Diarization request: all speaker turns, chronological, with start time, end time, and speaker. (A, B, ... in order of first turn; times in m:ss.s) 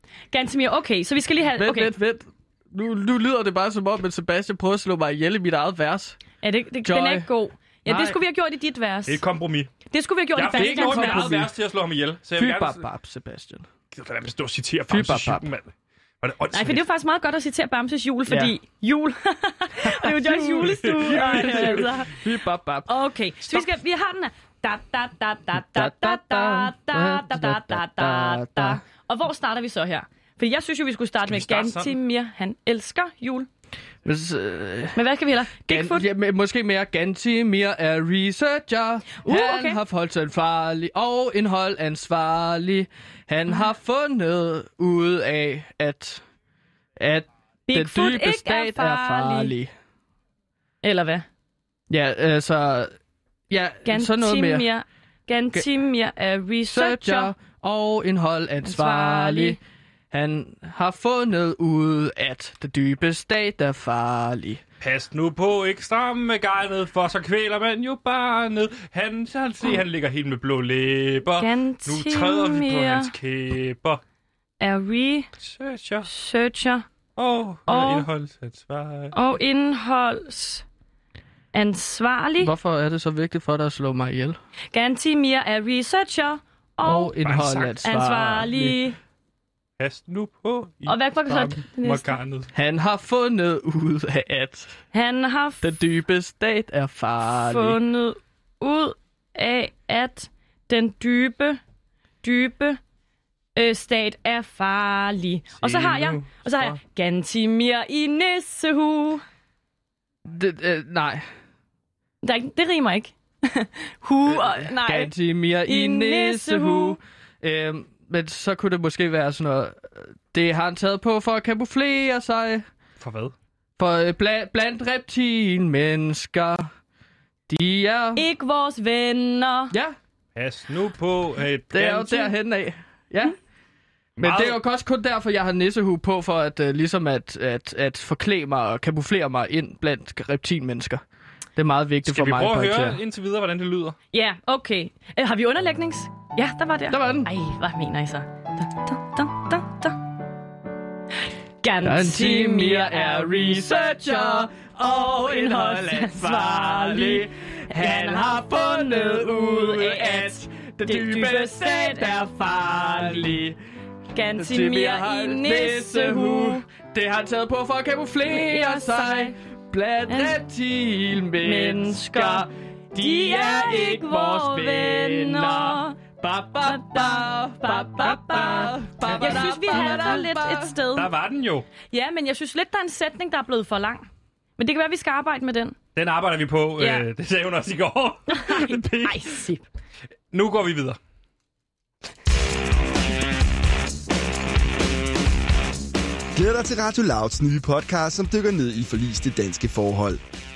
0:00.3-0:01.9 A
0:01.5-0:06.2 B
0:06.4-0:09.2 A
0:06.8-0:07.3 B
0:07.9-0:08.2 B
0:09.0-0:09.7 C
0:09.9-0:11.4 A
0:10.3-0:12.8 C
0:10.5-0:11.5 B
0:12.4-0:13.6 B
0:13.9-0:16.8 C
0:14.9-0:15.5 B
0:16.5-0:22.2 A
0:18.3-0:18.5 B
0:19.8-0:22.9 B
0:20.7-0:21.9 C
0:22.9-0:33.5 A
0:25.5-0:28.8 B
0:31.2-0:31.9 C
0:34.0-0:35.0 B
0:34.9-0:36.1 A
0:35.7-0:46.2 B
0:39.2-0:39.8 A
0:47.0-0:49.7 B
0:47.7-0:49.5 A
0:50.8-0:51.2 A
0:51.9-0:52.9 B
0:53.5-0:54.6 B
0:53.8-0:57.3 A
0:56.7-0:59.6 B
0:58.6-0:59.6 A
1:00.1-1:04.6 B
1:04.8-1:14.0 C
1:11.4-1:13.1 A
1:14.6-1:15.3 A
1:15.4-1:16.1 C
1:16.0-1:16.9 A
1:17.2-1:19.1 C
1:17.7-1:18.1 A
1:19.1-1:20.6 A
1:21.5-1:22.5 A
1:22.4-1:24.4 B
1:24.7-1:27.1 A
1:26.8-1:28.8 B
1:27.2-1:27.7 C
1:27.8-1:29.0 A
1:29.8-1:32.5 C
1:30.8-1:32.2 A
1:32.5-1:34.8 B
1:34.9-1:35.7 A
1:35.6-1:37.8 B
1:37.3-1:41.6 A
1:42.2-1:42.8 A
1:43.6-1:49.2 A
1:45.6-1:46.8 C
1:50.2-1:51.2 B
1:52.2-1:55.1 A
1:54.3-2:02.6 B
1:55.6-1:57.0 A
2:03.0-2:03.3 C
2:03.8-2:06.7 B
2:07.5-2:08.2 B
2:08.2-2:09.7 A
2:09.7-2:10.0 B
2:10.4-2:12.3 C
2:11.7-2:13.4 B
2:14.2-2:14.6 C
2:14.2-2:21.0 B
2:21.6-2:23.0 B
2:22.0-2:24.0 C
2:24.1-2:30.0 A
2:26.9-2:27.3 B
2:31.6-2:42.2 A
2:31.8-2:43.6 B
2:44.1-2:46.6 A
2:44.3-3:00.7 B
2:48.3-2:49.4 A
2:50.1-2:50.4 A
2:51.4-2:56.0 A
2:56.6-3:01.1 A
3:00.9-3:01.7 C
3:01.9-3:04.1 A
3:04.6-3:05.8 A
3:05.9-3:09.3 C
3:06.8-3:07.0 A
3:08.3-3:09.7 A
3:10.3-3:11.0 C
3:16.3-3:20.2 D